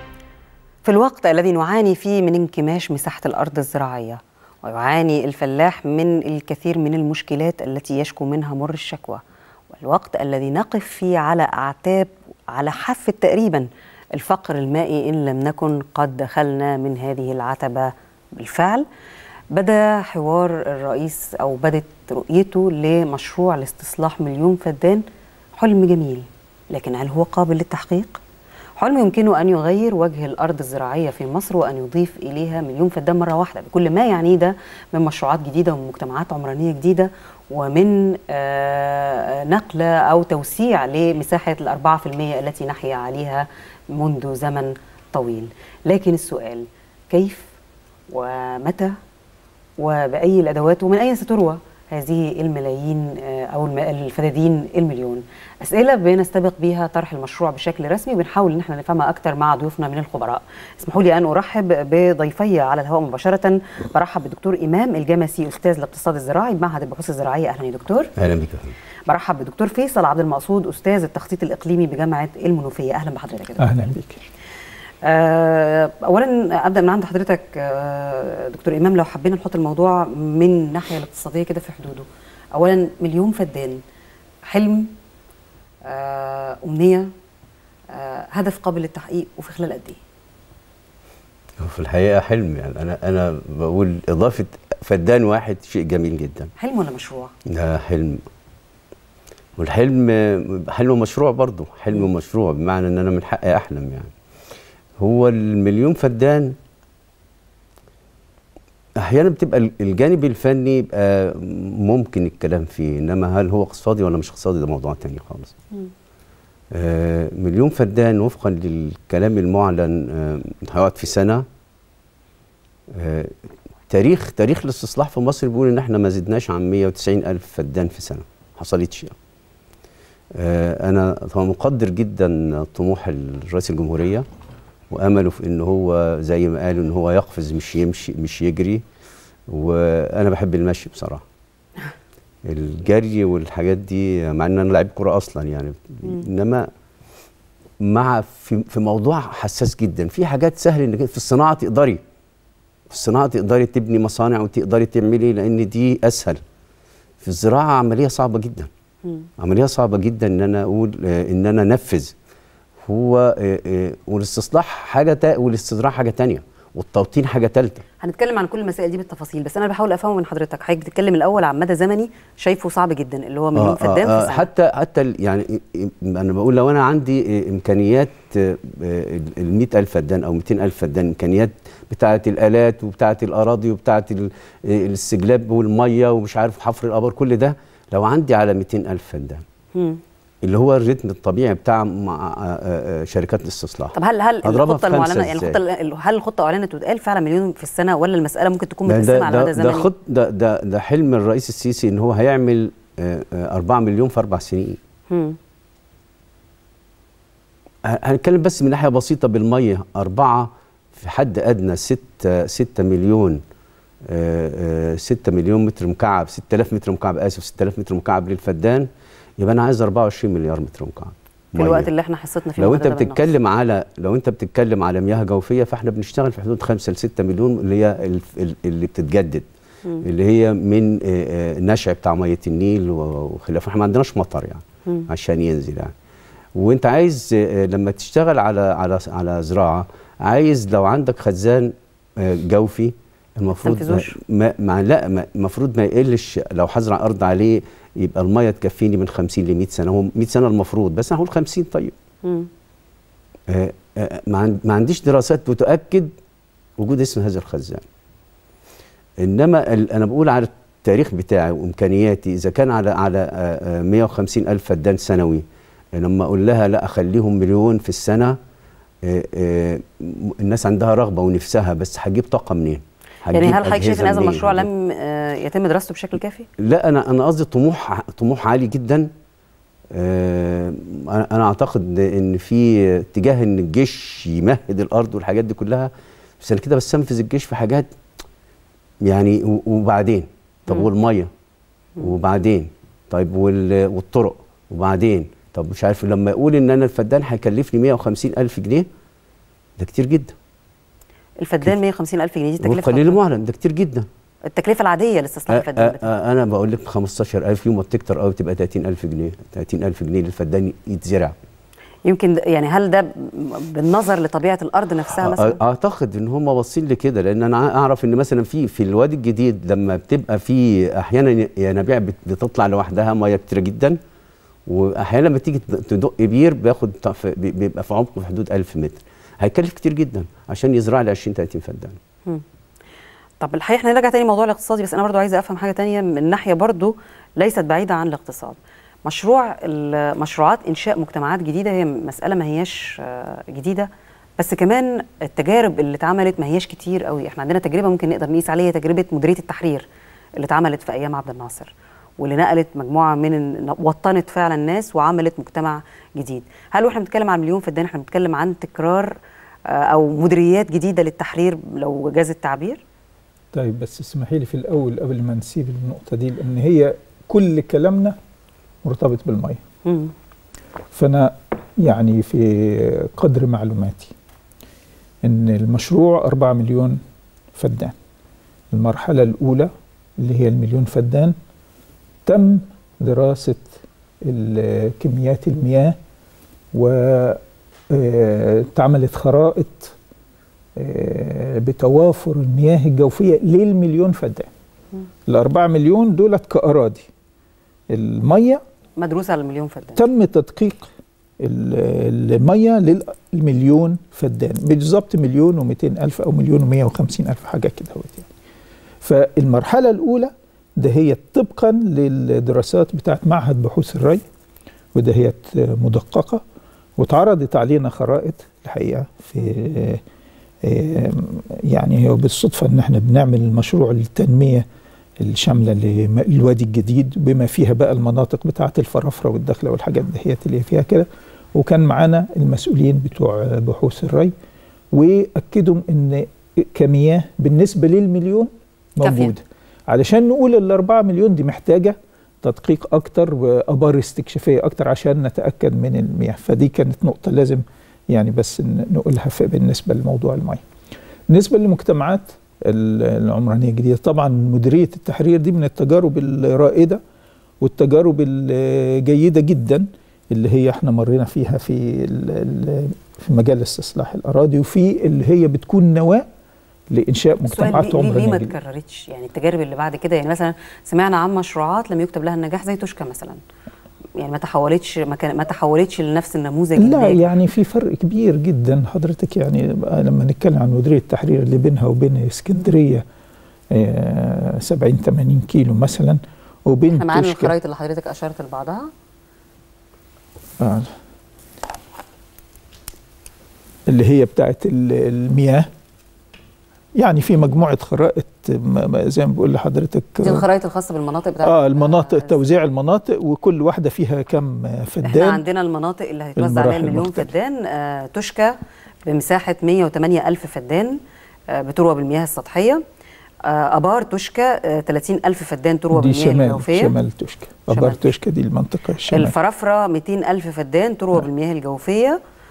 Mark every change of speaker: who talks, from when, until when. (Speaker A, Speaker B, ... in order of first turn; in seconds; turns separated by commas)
Speaker A: 0.8-9.2, Speaker A: 9.7-18.9, Speaker A: 19.5-28.2, Speaker A: 28.8-47.5, Speaker A: 48.1-48.9, Speaker A: 49.8-68.1, Speaker B: 68.2-68.7, Speaker A: 69.1-73.7, Speaker C: 73.6-74.2, Speaker A: 75.0-83.8, Speaker A: 84.5-84.9, Speaker A: 85.8-87.1, Speaker A: 87.9-90.0, Speaker B: 91.6-96.5, Speaker A: 96.6-97.3, Speaker B: 97.5-98.2, Speaker B: 99.6-104.1, Speaker B: 105.0-106.5, Speaker B: 109.0-115.5, Speaker B: 116.7-121.4, Speaker B: 122.9-123.3, Speaker B: 123.9-129.1, Speaker B: 130.3-134.2, Speaker B: 134.9-138.8, Speaker B: 139.5-141.2, Speaker B: 142.4-146.7, Speaker B: 147.8-152.0, Speaker B: 152.9-156.4, Speaker B: 157.2-158.7, Speaker B: 159.4-162.1, Speaker B: 162.8-167.8, Speaker A: 168.0-174.5, Speaker B: 173.5-189.4, Speaker B: 190.4-195.6, Speaker A: 193.9-199.9, Speaker B: 198.9-204.8, Speaker A: 205.1-205.4, Speaker B: 207.8-213.4, Speaker B: 214.1-218.9, Speaker B: 219.4-221.9, Speaker A: 221.6-223.3, Speaker B: 222.6-229.4, Speaker B: 230.0-235.9, Speaker B: 236.6-251.9, Speaker A: 243.6-244.1, Speaker A: 252.2-252.5, Speaker B: 253.5-256.1, Speaker B: 256.8-257.8, Speaker B: 259.2-265.4, Speaker B: 265.9-268.4, Speaker B: 269.0-274.7, Speaker A: 273.3-276.5, Speaker B: 276.6-279.1, Speaker B: 279.9-285.9, Speaker B: 286.4-287.9, Speaker B: 289.0-291.3, Speaker B: 292.0-298.9, Speaker B: 299.8-300.3, Speaker A: 301.4-303.2, Speaker B: 302.6-304.1, Speaker A: 304.5-306.1, Speaker B: 305.5-311.3, Speaker A: 312.0-315.6, Speaker B: 315.1-324.0, Speaker B: 324.6-332.0, Speaker A: 333.4-359.1, Speaker A: 359.7-362.8, Speaker C: 363.5-368.1, Speaker C: 368.8-369.6, Speaker A: 369.9-370.1, Speaker C: 370.9-374.1, Speaker C: 375.2-377.0, Speaker C: 377.5-377.9, Speaker C: 378.7-381.3, Speaker C: 382.2-385.9, Speaker C: 386.7-389.9, Speaker C: 390.8-394.5, Speaker C: 395.2-397.1, Speaker C: 397.9-398.6, Speaker A: 399.0-400.0, Speaker C: 399.9-408.3, Speaker C: 409.0-414.2, Speaker C: 414.9-416.4, Speaker C: 417.0-420.0, Speaker C: 420.6-424.6, Speaker C: 425.2-434.3, Speaker C: 434.9-450.6, Speaker A: 439.0-439.3, Speaker C: 451.3-457.0, Speaker C: 457.6-466.2, Speaker C: 466.9-468.5, Speaker A: 467.4-473.4, Speaker A: 474.1-477.3, Speaker C: 476.8-483.0, Speaker C: 483.7-487.5, Speaker A: 486.9-488.9, Speaker C: 490.6-490.9, Speaker C: 493.9-495.7, Speaker C: 497.0-500.4, Speaker A: 500.2-502.4, Speaker C: 501.4-505.4, Speaker A: 505.0-511.0, Speaker C: 506.4-507.3, Speaker A: 511.5-512.8, Speaker A: 513.4-516.9, Speaker C: 515.9-519.3, Speaker A: 517.7-518.1, Speaker A: 519.1-522.2